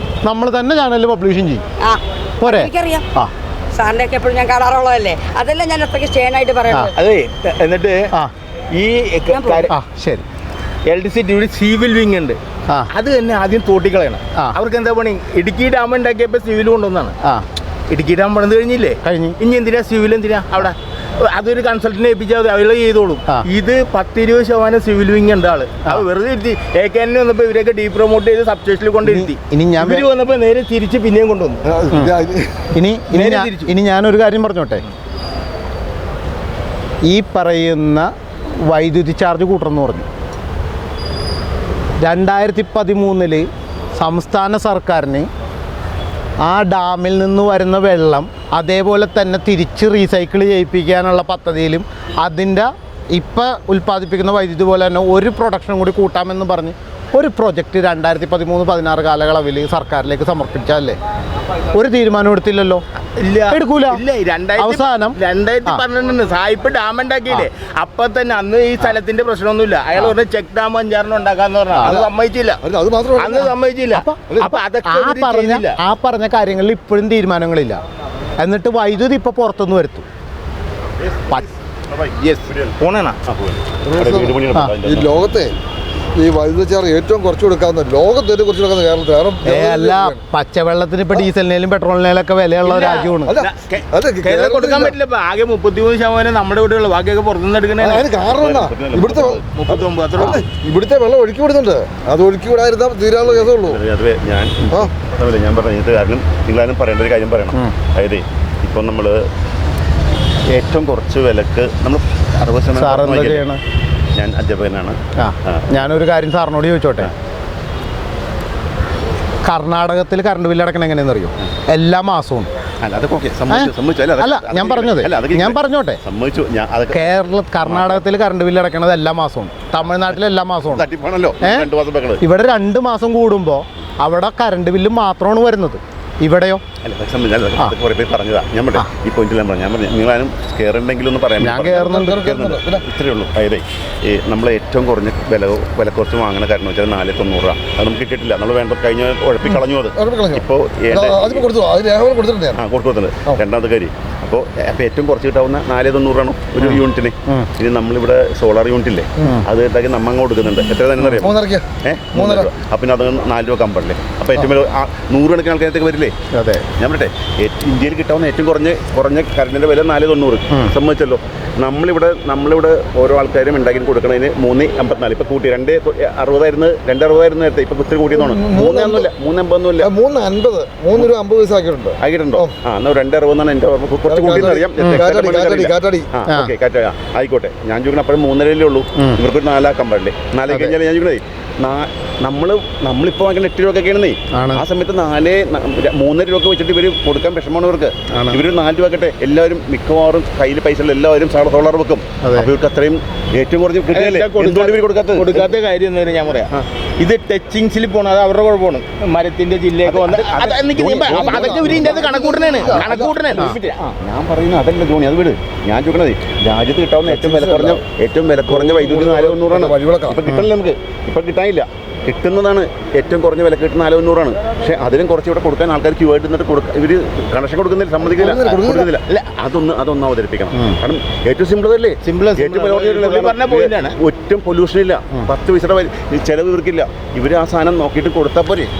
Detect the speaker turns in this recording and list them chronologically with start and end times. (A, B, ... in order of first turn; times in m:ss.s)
0:00.2-0:01.6 A
0:02.4-0:03.3 A
0:02.6-0:02.9 B
0:03.8-0:06.6 B
0:07.0-0:08.1 C
0:08.7-0:09.7 C
0:09.7-0:10.2 A
0:10.9-0:12.4 C
0:12.9-0:17.1 C
0:17.9-0:31.6 C
0:19.0-0:19.4 A
0:29.0-0:30.1 A
0:31.7-0:32.7 D
0:31.9-0:32.2 A
0:32.7-0:34.8 A
0:33.1-0:33.7 C
0:37.1-0:38.1 A
0:38.6-0:40.1 A
0:42.0-0:45.3 A
0:46.4-1:01.0 A
1:01.7-1:02.8 A
1:03.2-1:12.6 C
1:03.5-1:04.0 A
1:04.6-1:05.8 A
1:12.6-1:13.5 D
1:13.2-1:15.7 C
1:13.4-1:17.8 A
1:18.4-1:20.0 A
1:21.0-1:25.2 E
1:22.3-1:23.2 C
1:23.9-1:25.5 D
1:26.2-1:30.2 D
1:29.4-1:33.3 A
1:32.6-1:38.1 C
1:33.2-1:34.9 D
1:37.8-1:43.8 D
1:38.1-1:39.4 E
1:39.5-1:40.4 C
1:43.2-1:49.2 E
1:50.5-1:53.4 E
1:52.8-1:53.6 A
1:54.1-1:55.8 E
1:55.2-1:57.1 A
1:59.4-2:02.5 A
2:02.8-2:07.1 E
2:03.5-2:06.0 A
2:06.9-2:10.8 A
2:07.6-2:08.0 E
2:09.9-2:10.2 E
2:10.7-2:12.2 E
2:11.4-2:11.7 A
2:12.2-2:16.6 A
2:16.8-2:31.5 E
2:21.4-2:22.3 A
2:21.8-2:22.8 D
2:30.0-2:32.6 D
2:32.6-2:46.1 E
2:36.6-2:37.5 A
2:41.0-2:41.3 A
2:41.2-2:42.5 D
2:46.3-2:46.6 A
2:46.8-2:59.9 E
2:58.1-2:59.1 D
2:59.8-3:02.5 D
3:02.0-3:25.5 E
3:04.0-3:06.1 D
3:04.8-3:05.1 A
3:06.3-3:06.5 A
3:10.5-3:10.8 A
3:14.3-3:14.6 A
3:18.1-3:18.4 A
3:22.2-3:22.5 A
3:23.9-3:33.9 C
3:29.8-3:58.7 E
3:31.0-3:33.3 D
3:37.0-3:37.8 D
3:38.5-3:40.2 D
3:48.0-3:48.9 D
3:52.0-3:54.0 C